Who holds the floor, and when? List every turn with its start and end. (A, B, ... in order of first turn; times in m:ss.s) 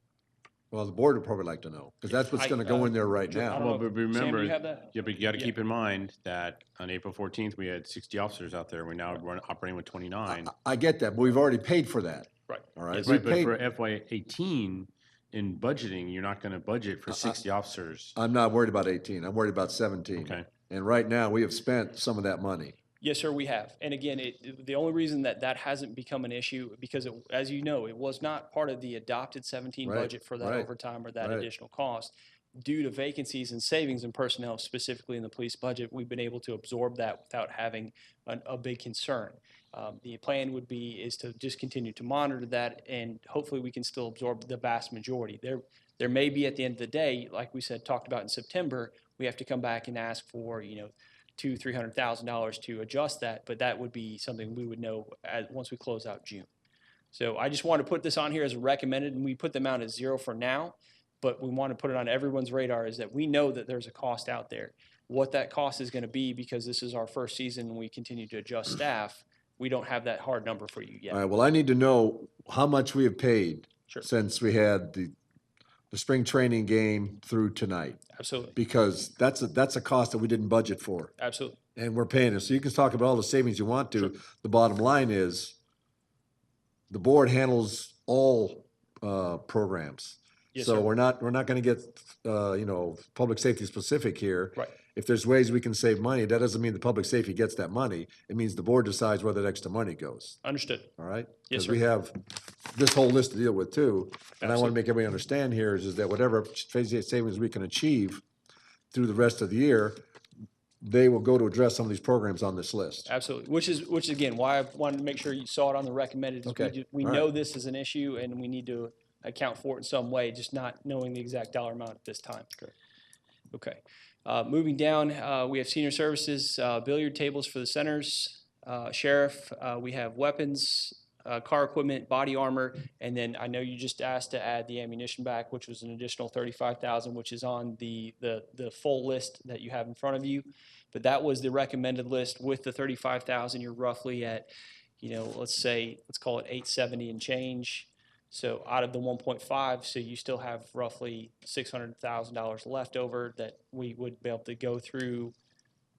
0:00.7-0:03.7 A
0:02.3-0:05.6 B
0:03.5-0:10.5 C
0:10.3-0:13.5 A
0:12.5-0:13.2 B
0:13.0-0:18.2 C
0:17.1-0:17.4 A
0:18.2-0:22.8 A
0:20.2-0:20.5 C
0:23.0-0:56.5 B
0:29.8-0:30.7 A
0:31.2-0:31.5 A
0:57.1-1:11.2 B
1:11.1-1:15.1 A
1:15.9-1:18.0 A
1:18.1-1:18.6 B
1:18.6-1:21.1 A
1:21.2-1:21.6 B
1:21.8-1:25.6 A
1:26.9-1:40.4 A
1:30.5-1:30.9 B
1:40.4-1:40.9 B
1:41.0-1:48.2 A
1:41.5-1:41.8 B
1:44.4-1:44.8 B
1:48.9-1:50.0 A
1:50.8-1:53.1 A
1:53.1-2:02.7 B
1:56.5-1:57.3 A
2:03.5-2:24.5 B
2:25.0-2:35.3 B